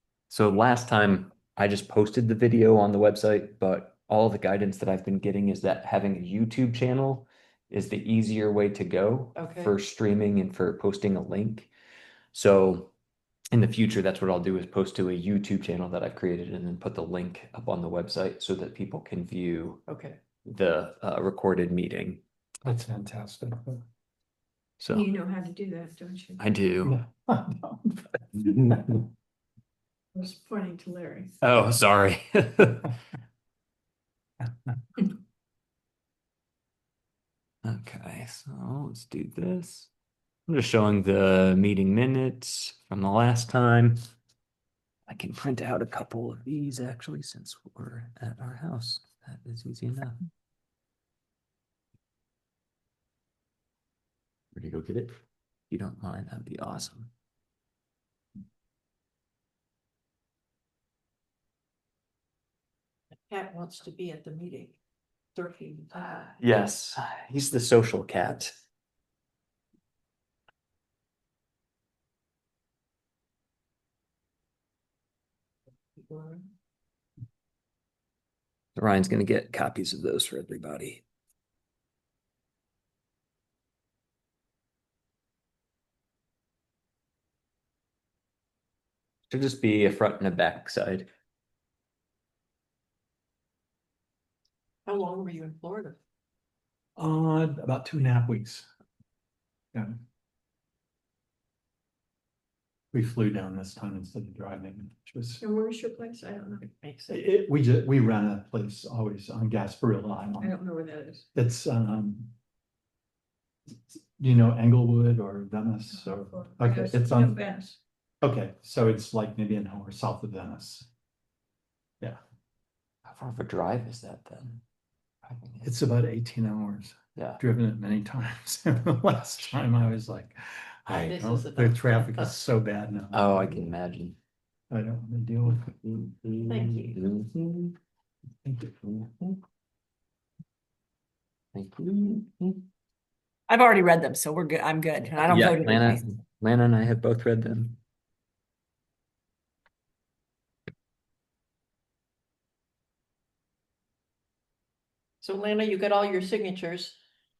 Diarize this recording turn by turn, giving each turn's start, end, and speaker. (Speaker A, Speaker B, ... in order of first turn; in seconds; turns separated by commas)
Speaker A: 0.3-11.7, Speaker B: 9.3-9.8, Speaker A: 12.3-12.9, Speaker A: 13.5-19.8, Speaker B: 19.9-20.2, Speaker A: 20.4-22.2, Speaker C: 22.6-23.8, Speaker A: 24.8-25.1, Speaker D: 24.9-26.4, Speaker A: 26.4-27.0, Speaker C: 26.9-29.0, Speaker D: 30.1-31.4, Speaker A: 31.4-32.9, Speaker A: 37.6-39.9, Speaker A: 40.5-44.0, Speaker A: 45.1-50.2, Speaker A: 54.5-55.1, Speaker A: 55.7-57.1, Speaker B: 63.3-64.8, Speaker B: 65.3-66.3, Speaker A: 66.4-68.5, Speaker B: 76.0-76.4, Speaker A: 78.8-81.0, Speaker A: 89.3-91.1, Speaker B: 94.9-96.0, Speaker C: 97.0-98.7, Speaker C: 102.9-105.4, Speaker D: 105.4-106.7, Speaker B: 106.8-107.2, Speaker C: 107.1-110.6, Speaker D: 110.4-111.3, Speaker C: 111.3-112.3, Speaker C: 113.9-117.4, Speaker D: 115.9-117.8, Speaker C: 118.2-120.9, Speaker A: 123.1-124.6, Speaker A: 125.2-125.7, Speaker C: 125.6-133.6, Speaker A: 127.2-127.4, Speaker B: 131.0-132.3, Speaker A: 133.1-134.2, Speaker C: 134.7-135.7, Speaker A: 135.6-137.8, Speaker B: 136.5-137.0, Speaker C: 138.4-138.7, Speaker A: 138.8-139.2, Speaker A: 141.5-142.6, Speaker E: 143.5-146.1, Speaker A: 145.2-147.8, Speaker B: 155.2-157.0